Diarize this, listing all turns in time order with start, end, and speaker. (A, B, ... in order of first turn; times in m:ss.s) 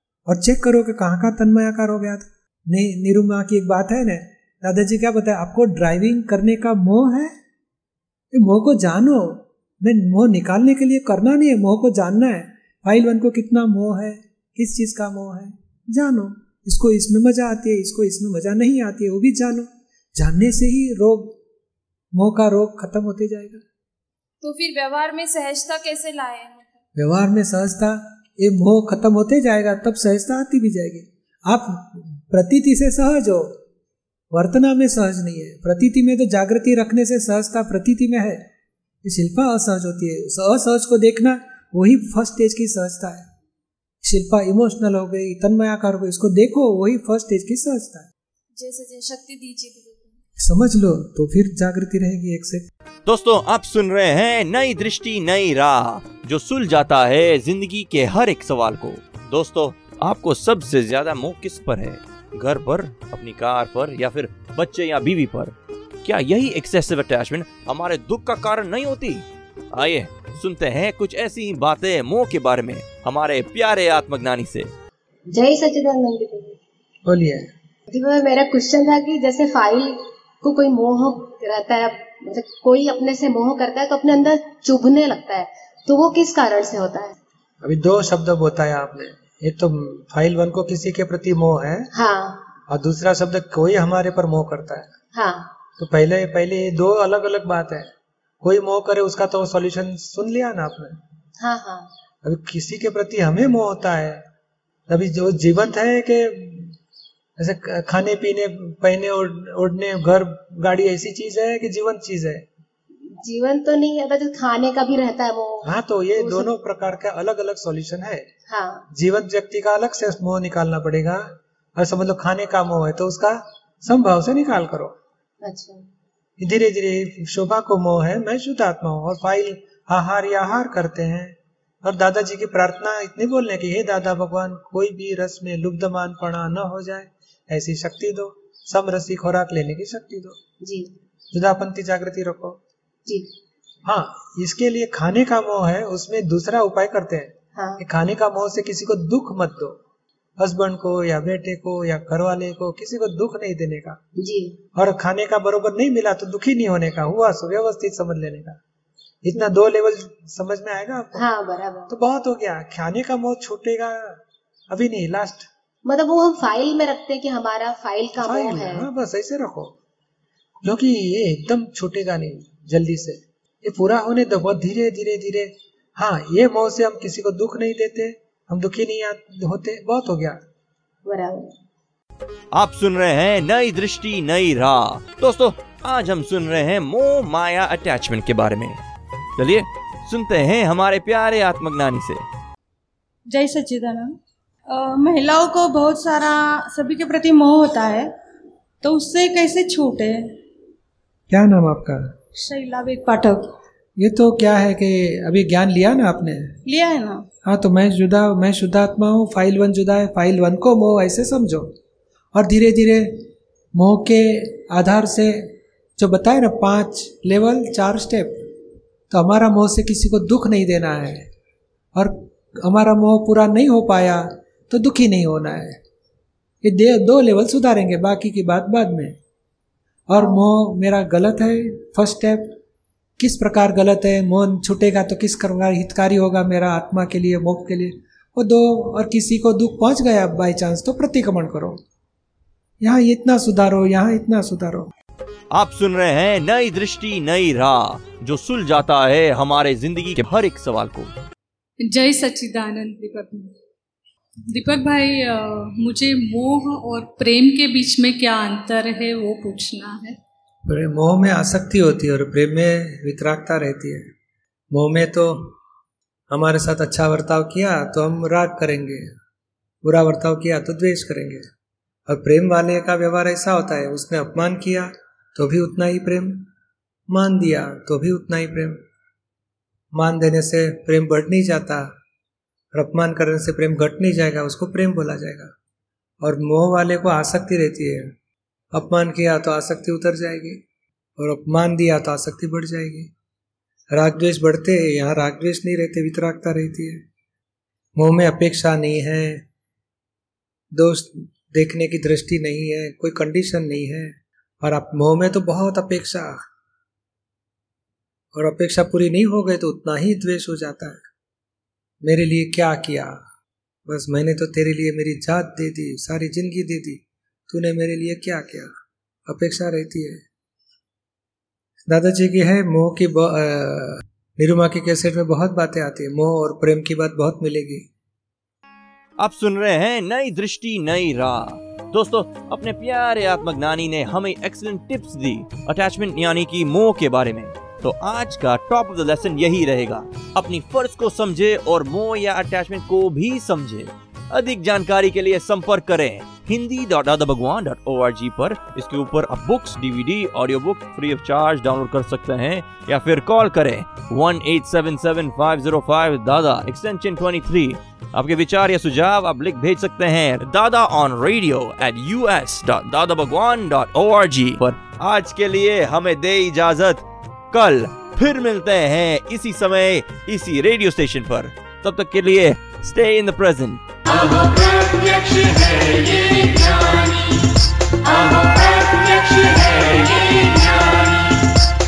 0:00.3-0:07.3 A
0:08.3-0:21.3 A
0:22.1-0:23.6 A
0:24.4-0:26.8 B
0:27.0-0:33.5 A
0:34.3-0:38.4 A
0:39.0-0:43.2 A
0:44.0-0:48.1 A
0:48.6-0:50.1 B
0:50.4-0:52.6 A
0:53.0-1:14.7 C
1:15.3-1:16.6 D
1:17.0-1:17.5 A
1:17.9-1:27.2 D
1:27.6-1:31.9 A
1:31.9-1:32.5 D
1:32.7-1:34.9 A
1:35.1-1:35.5 D
1:35.8-1:37.9 A
1:38.4-1:40.9 A
1:41.4-1:41.9 D
1:42.2-1:44.2 A
1:44.9-1:46.8 A
1:47.4-1:52.4 A
1:53.2-1:55.6 D
1:55.6-1:58.2 A
1:56.2-1:56.5 D
1:58.5-1:58.9 D
1:58.9-2:01.2 A
2:01.8-2:04.9 A
2:05.4-2:05.8 D
2:06.4-2:20.4 A
2:20.6-2:20.9 D
2:21.3-2:22.6 A
2:23.8-2:29.8 A
2:27.6-2:27.8 D
2:30.4-2:34.0 A
2:34.2-2:34.6 D
2:34.7-2:38.6 A
2:39.2-2:41.3 A
2:41.2-2:41.9 D
2:41.9-2:45.5 A
2:45.8-2:48.9 D
2:48.2-2:49.7 A
2:50.6-3:00.4 A
3:01.0-3:01.5 D
3:02.6-3:08.8 C
3:09.4-3:12.2 C
3:13.3-3:14.2 E
3:14.7-3:18.2 E
3:18.8-3:20.4 E
3:21.3-3:22.0 A
3:22.3-3:23.5 E
3:24.0-3:26.5 A
3:26.6-3:27.2 E
3:27.4-3:31.7 A
3:32.3-3:35.3 A
3:36.0-3:38.4 A
3:39.1-3:41.3 A
3:41.9-3:45.8 A
3:46.6-3:49.1 A
3:50.1-3:52.5 A
3:53.2-4:01.8 A
4:02.8-4:04.9 A
4:05.5-4:11.1 C
4:11.8-4:13.5 F
4:14.5-4:20.2 F
4:20.6-4:24.0 A
4:24.7-4:25.5 A
4:26.3-4:29.0 A
4:29.8-4:31.4 A
4:32.1-4:36.5 A
4:37.1-4:38.8 A
4:39.9-4:41.8 A
4:42.7-4:45.5 A
4:46.2-4:48.0 A
4:48.7-4:50.6 A
4:51.2-4:53.1 A
4:53.9-4:57.0 A
4:58.0-4:59.4 A
5:00.7-5:06.3 A
5:08.3-5:11.0 A
5:12.0-5:13.1 A
5:13.9-5:18.7 A
5:19.3-5:20.2 A
5:21.9-5:27.8 A
5:29.2-6:17.2 C
6:18.1-6:20.9 C